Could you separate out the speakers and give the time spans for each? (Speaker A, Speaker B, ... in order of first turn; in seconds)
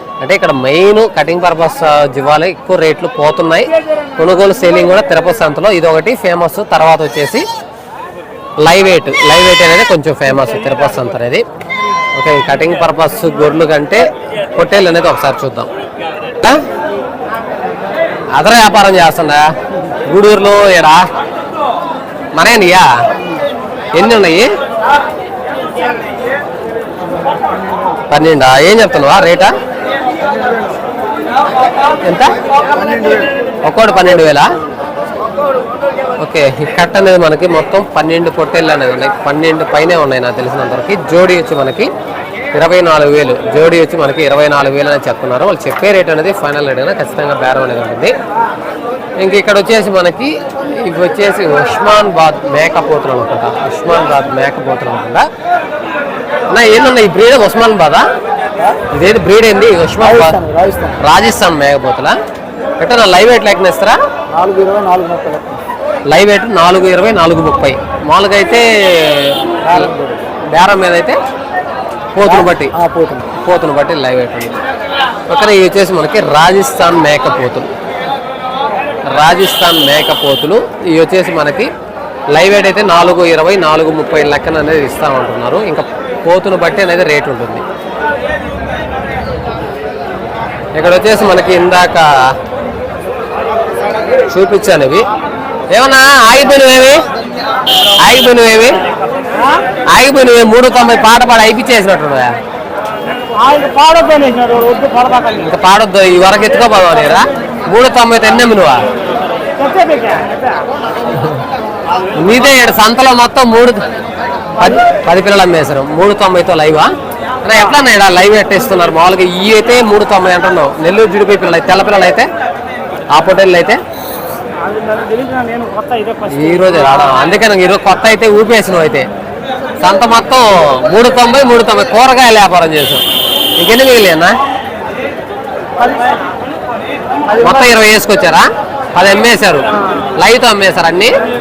Speaker A: 0.2-7.5, 8.6-11.4, 12.2-15.7, 18.4-19.5, 20.1-21.1, 22.4-22.9, 23.9-24.5, 28.1-29.5, 32.0-32.4, 33.7-34.4, 36.2-41.9, 42.5-48.1, 49.2-55.2, 56.5-58.0, 58.9-60.4, 61.0-62.1, 62.8-64.0, 66.1-69.9, 70.5-71.2, 72.1-72.7, 73.4-74.6, 75.3-77.7, 79.1-81.7, 82.3-87.6, 90.8-92.1, 94.3-95.0, 95.7-97.0, 98.0-98.8, 99.9-102.3, 105.4-108.8, 111.1-111.4, 112.2-113.8, 114.6-116.9, 117.4-122.3, 123.1-123.8, 126.2-129.1, 129.8-133.0, 133.6-134.3, 137.4-141.1
Speaker B: 60.0-61.0, 64.3-65.4, 69.7-70.2, 72.2-73.3, 99.4-99.6, 103.2-105.5, 109.6-110.6, 124.6-127.0, 135.8-136.2, 137.3-137.7